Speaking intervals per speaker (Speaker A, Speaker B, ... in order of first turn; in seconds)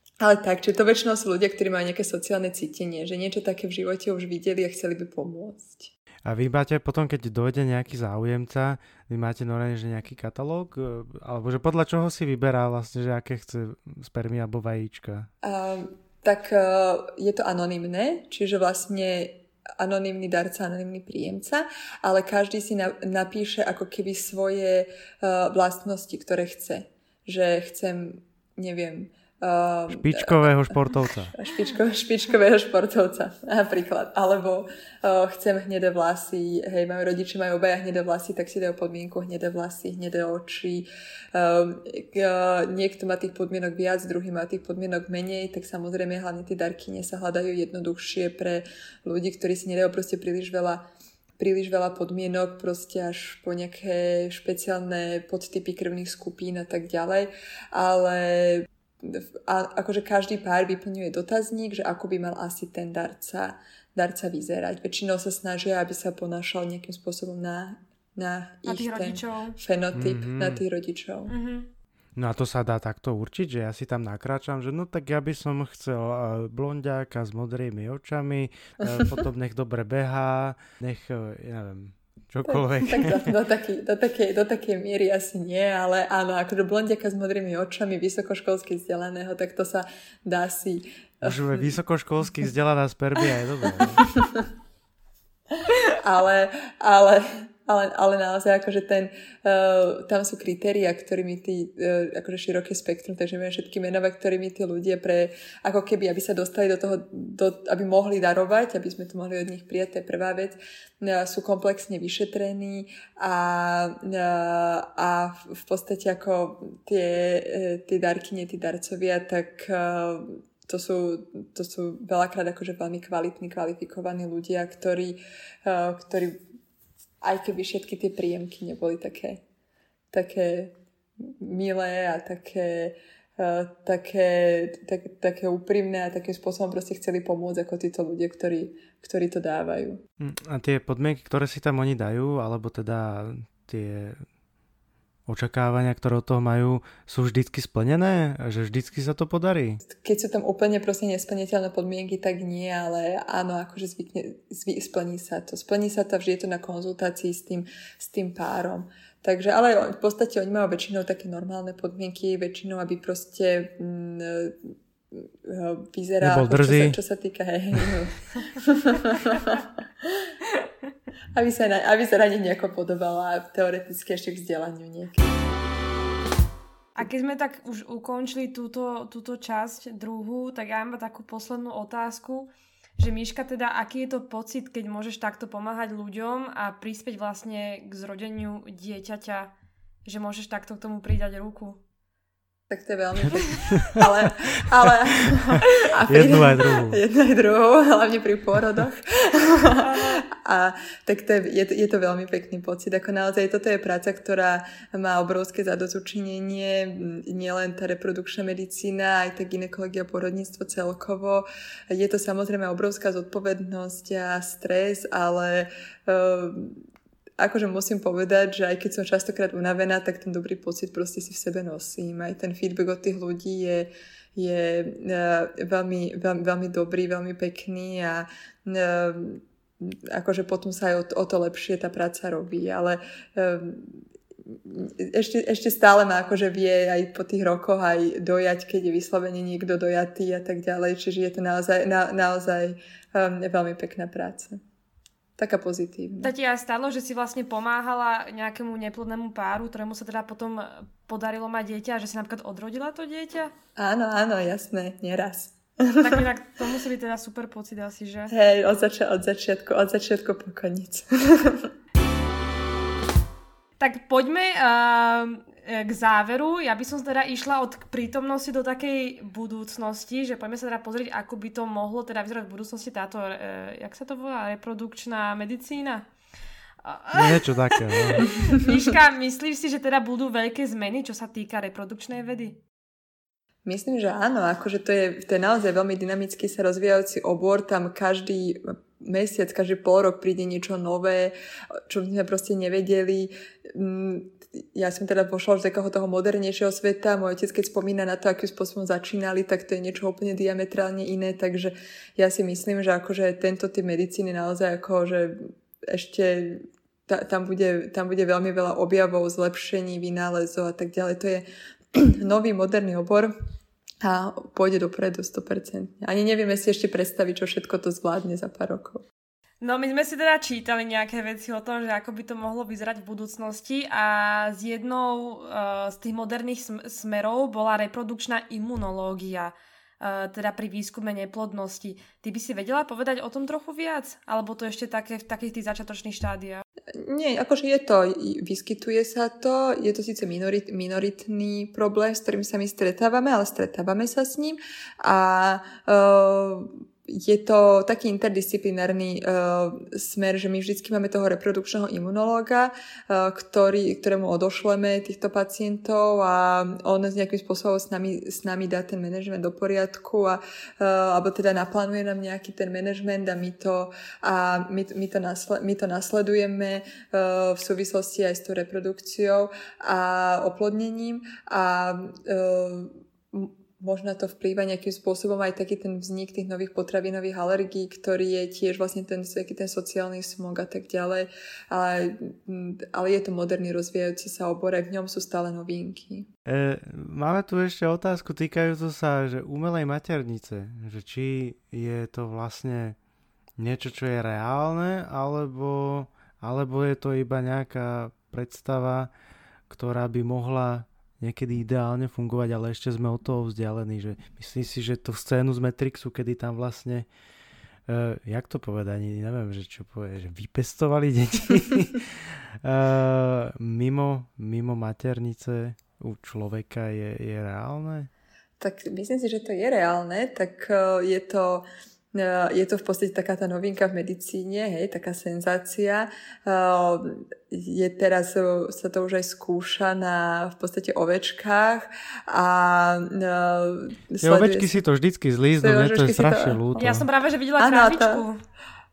Speaker A: 0.2-5.9, 15.4-50.8, 51.4-71.3, 78.9-79.2, 82.5-91.7, 94.0-94.5, 95.5-126.4, 127.2-129.4, 130.1-140.0, 149.8-170.3, 171.3-175.3, 192.7-216.8, 217.4-244.6, 245.4-246.3, 253.8-256.3, 258.3-261.7, 283.6-291.3, 291.9-313.3, 314.0-319.1, 336.9-386.3, 418.6-434.8, 435.6-436.9, 437.6-438.2
Speaker B: 6.2-15.3, 29.9-31.4, 69.9-70.6, 72.2-83.4, 91.2-94.1, 140.2-144.2, 145.3-149.8, 166.2-167.0, 193.7-194.0, 195.2-195.5, 196.1-197.0, 277.1-278.4, 386.5-393.0, 393.6-399.1, 399.7-407.1, 407.9-418.1, 434.2-437.1
Speaker C: 68.7-69.6, 71.3-71.7, 176.9-189.5, 190.1-191.8, 193.3-193.6, 199.8-200.2, 246.2-253.5, 256.0-258.3, 263.8-276.1, 276.8-282.6, 319.6-336.6, 436.8-438.4